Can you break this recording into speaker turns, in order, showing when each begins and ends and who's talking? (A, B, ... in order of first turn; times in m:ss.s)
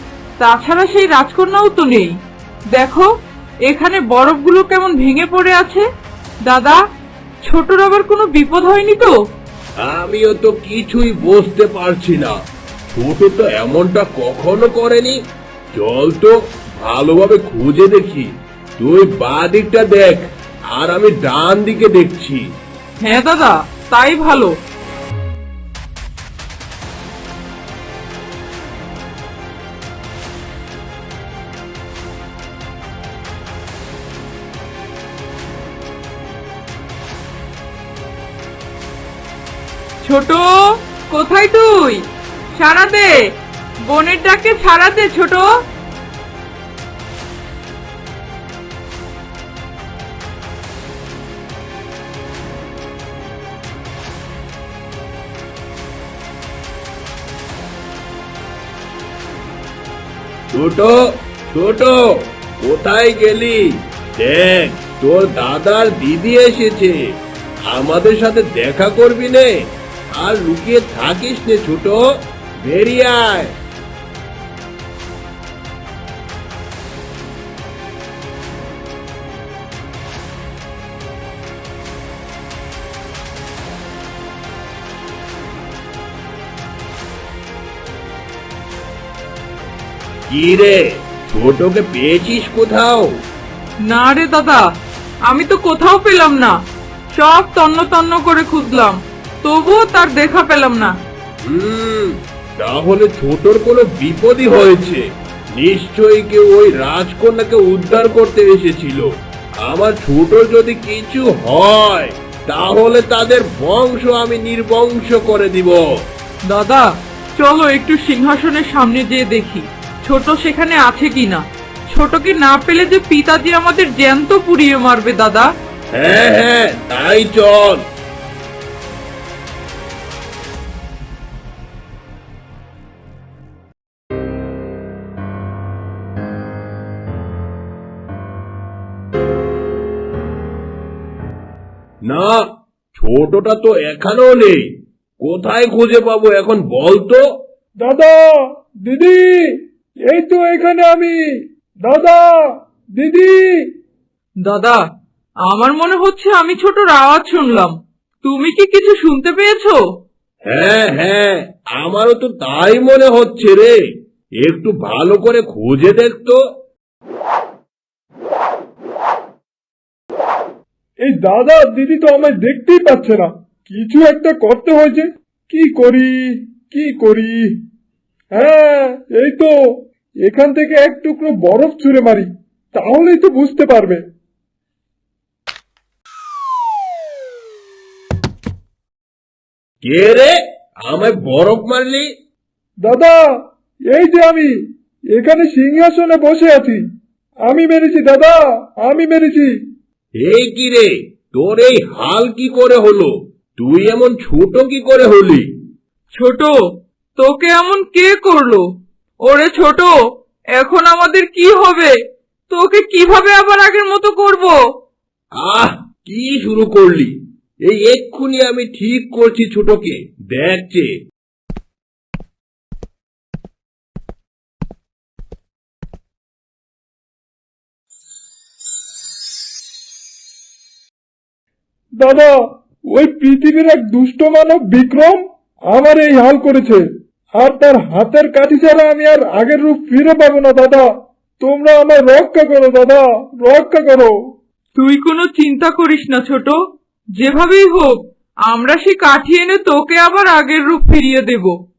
0:00.4-0:02.1 A
0:02.7-0:03.1 A
0:03.7-0:05.8 A
0:06.4-0:06.8 A
0:07.4-0:09.2 A
0:09.8-0:12.3 B
0:12.9-0:15.2 B
0:15.7-0:18.3 B
0:18.8-0:22.4 B
0:23.0-0:24.5 A
0:40.0-0:40.4 A
0:41.1-0:42.0 A
0:42.6-0:43.2 A
0:43.8-0:45.5 A
1:00.5-1:03.6 B
1:04.2-1:07.0 B
1:07.7-1:09.5 B
1:10.2-1:12.0 B
1:12.6-1:13.6 B
1:30.3-1:33.1 B
1:33.9-1:34.6 A
1:35.3-1:36.6 A
1:37.1-1:40.9 A
1:41.5-1:45.0 B
1:45.6-1:49.1 B
1:49.7-1:55.8 B
1:56.5-1:56.8 A
1:57.4-2:05.5 A
2:05.9-2:07.8 B
2:22.1-2:22.4 B
2:22.9-2:24.6 B
2:25.2-2:27.2 B
2:27.8-2:28.3 C
2:28.8-2:29.4 C
2:30.1-2:31.2 C
2:31.8-2:32.3 C
2:33.0-2:33.4 C
2:34.4-2:34.8 A
2:35.5-2:39.8 A
2:40.5-2:43.7 B
2:44.4-2:46.4 B
2:51.0-2:57.5 C
2:58.4-2:59.5 C
3:00.2-3:04.0 C
3:09.9-3:10.3 B
3:10.9-3:12.1 B
3:12.8-3:13.2 C
3:13.9-3:14.5 C
3:15.1-3:16.8 C
3:17.5-3:19.5 C
3:20.2-3:25.5 B
3:26.2-3:26.6 A
3:27.2-3:28.6 A
3:29.2-3:30.0 A
3:30.6-3:31.9 A
3:32.5-3:34.6 A
3:35.4-3:37.1 B
3:37.7-3:40.9 B
3:52.0-3:52.4 C
3:52.9-3:56.8 C
3:57.4-4:00.9 C
4:01.4-4:04.1 C
4:04.8-4:06.6 A
4:07.2-4:11.6 A